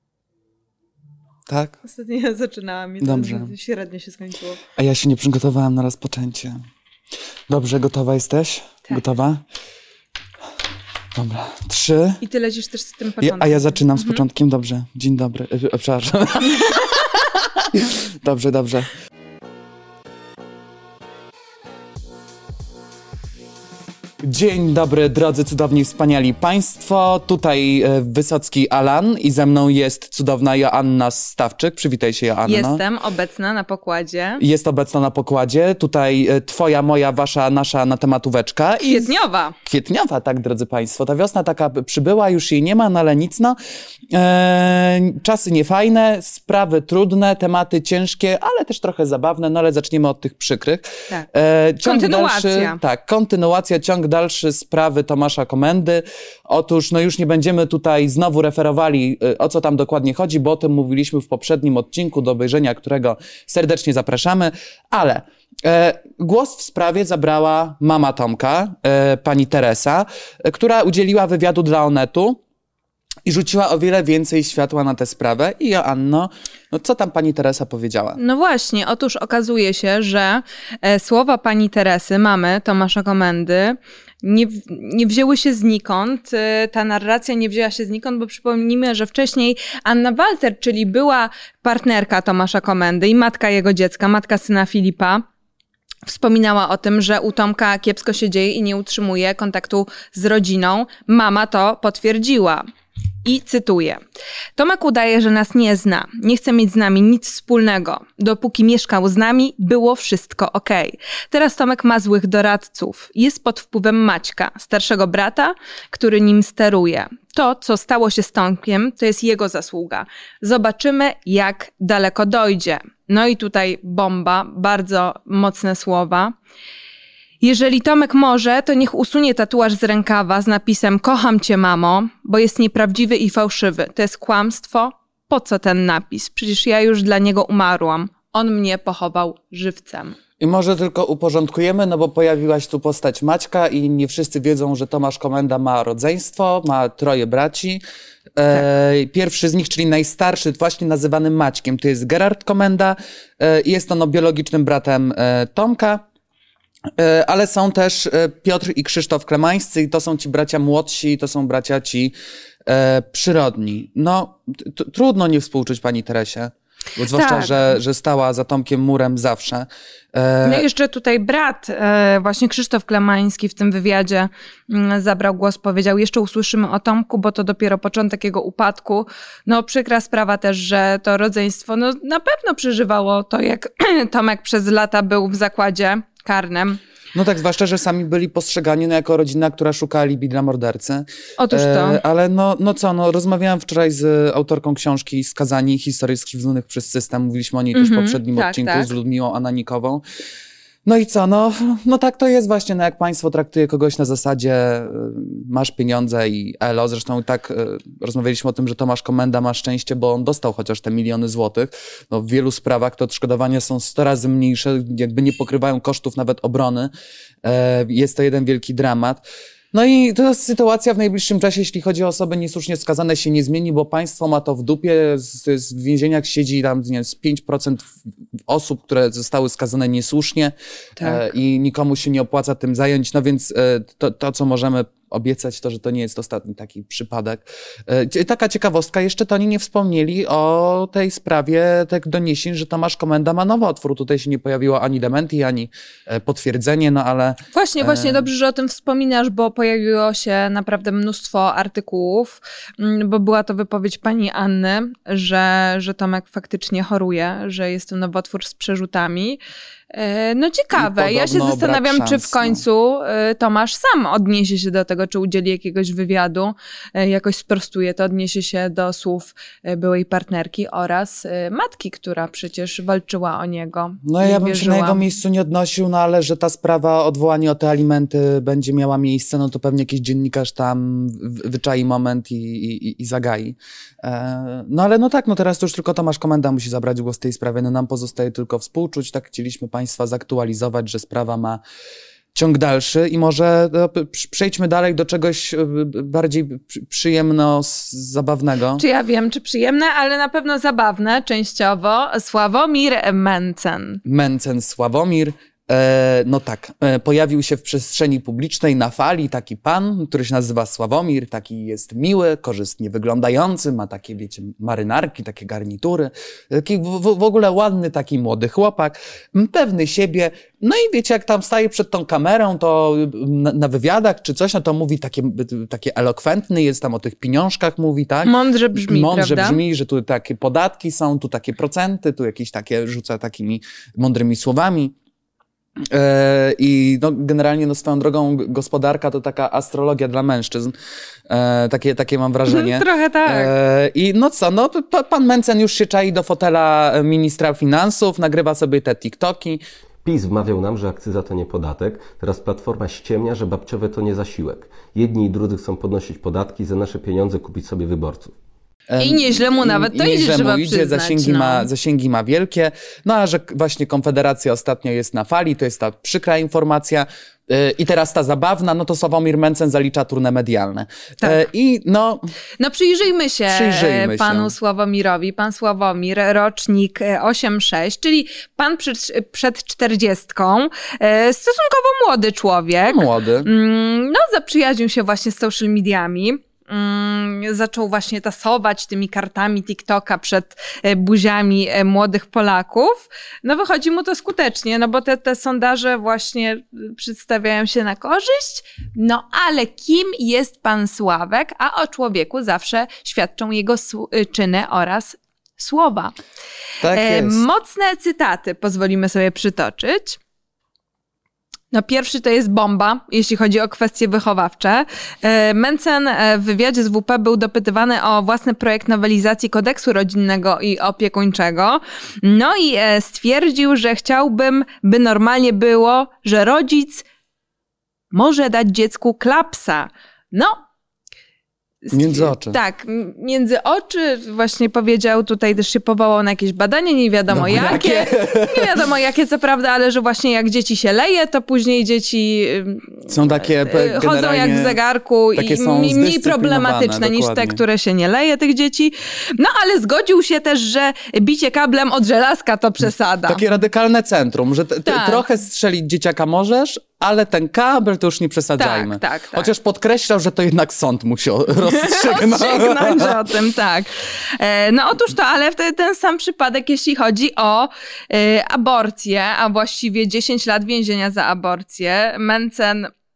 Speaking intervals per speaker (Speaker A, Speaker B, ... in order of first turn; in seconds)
Speaker A: 1.5-1.8, 3.0-3.5, 4.8-6.6, 7.5-9.4, 11.2-12.2, 13.2-18.9, 24.2-32.8, 34.4-39.1, 39.6-43.6, 44.1-72.4, 73.3-78.2, 140.4-147.8, 148.4-156.0, 157.0-162.1, 162.7-170.7, 187.1-200.0, 200.8-216.9, 217.4-227.9, 228.5-248.3, 260.8-262.6, 274.0-291.6, 292.3-298.8, 304.1-334.9, 335.9-340.7, 341.3-349.6, 358.9-372.3, 373.5-374.5, 382.9-383.5, 406.8-407.4, 431.9-432.6, 437.3-438.8, 443.1-444.8, 445.4-447.6, 453.3-463.2
Speaker B: 1.8-4.6, 12.2-14.2, 32.5-34.4, 38.8-39.6, 51.8-52.8, 78.2-95.2, 96.1-102.7, 103.2-104.0, 104.6-126.3, 127.4-140.2, 167.1-167.6, 170.4-186.8, 191.4-192.0, 197.7-198.9, 247.5-259.4, 259.9-275.1, 298.8-304.0, 328.2-329.6, 342.5-343.5, 359.0-361.7, 372.6-406.1, 406.9-410.2, 411.7-427.1, 428.1-430.6, 431.9-453.4, 454.9-455.2, 458.6-459.5, 461.6-472.9
Speaker C: 350.0-358.3